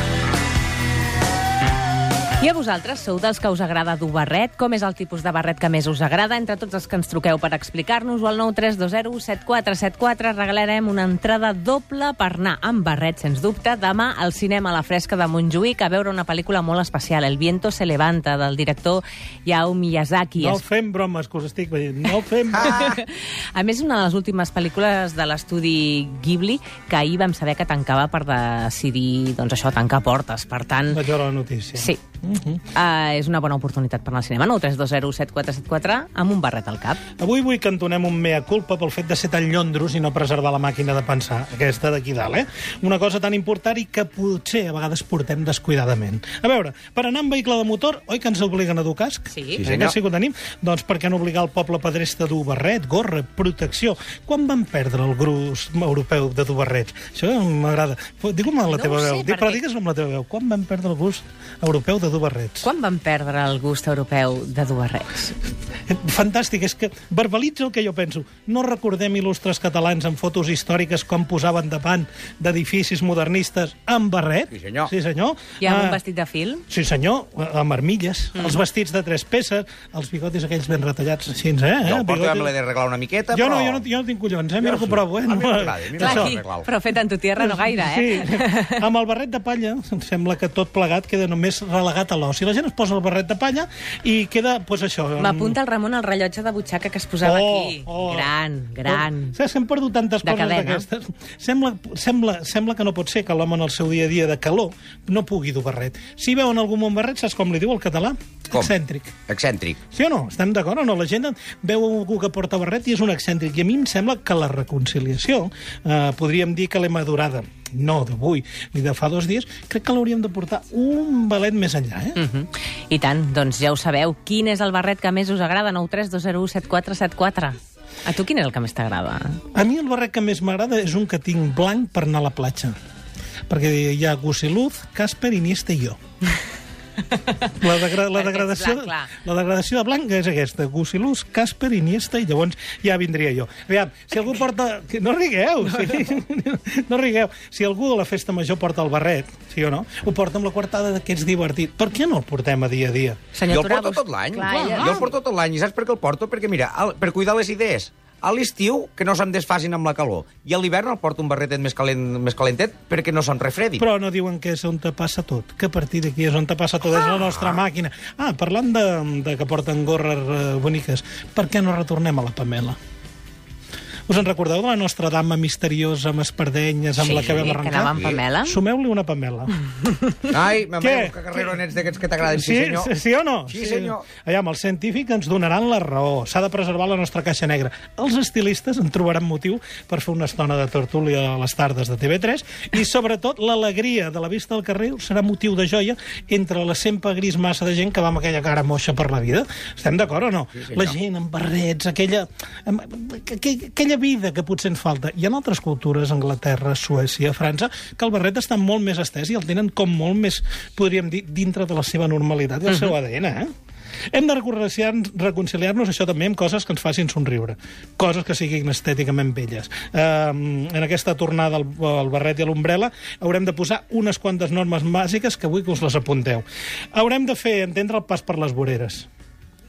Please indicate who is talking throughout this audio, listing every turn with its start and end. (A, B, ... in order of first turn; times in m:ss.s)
0:02.4-0:20.6 A
0:20.4-0:23.0 B
0:22.5-0:23.0 C
0:22.6-0:31.0 A
0:30.9-0:32.6 B
0:32.7-0:37.0 A
0:37.2-1:02.7 B
0:49.3-0:49.6 A
0:49.6-0:50.0 C
0:58.7-0:59.6 A
1:02.6-1:05.4 A
1:05.9-1:16.0 B
1:14.5-1:14.9 C
1:15.6-1:16.6 A
1:16.7-1:22.5 B
1:21.8-1:23.8 C
1:23.3-1:26.4 B
1:24.6-1:26.7 C
1:26.0-1:28.8 A
1:27.4-1:35.6 B
1:35.2-1:39.4 A
1:37.2-1:38.3 B
1:38.8-1:49.2 B
1:40.2-1:40.9 A
1:49.3-1:49.8 C
1:49.9-2:02.2 B
2:02.2-2:09.4 A
2:09.5-2:12.8 B
2:13.5-2:16.0 B
2:17.5-2:33.2 B
2:18.1-2:19.1 A
2:25.7-2:26.1 A
2:33.3-2:35.1 A
2:33.5-2:43.8 C
2:34.4-2:35.1 B
2:43.8-2:52.8 B
2:47.3-2:47.6 C
2:54.1-2:59.5 B
2:57.0-2:58.6 A
2:57.1-2:58.2 C
3:00.3-3:02.9 C
3:00.8-3:01.6 B
3:02.3-3:33.5 B
3:03.5-3:04.1 C
3:20.6-3:20.9 C
3:34.1-3:49.1 B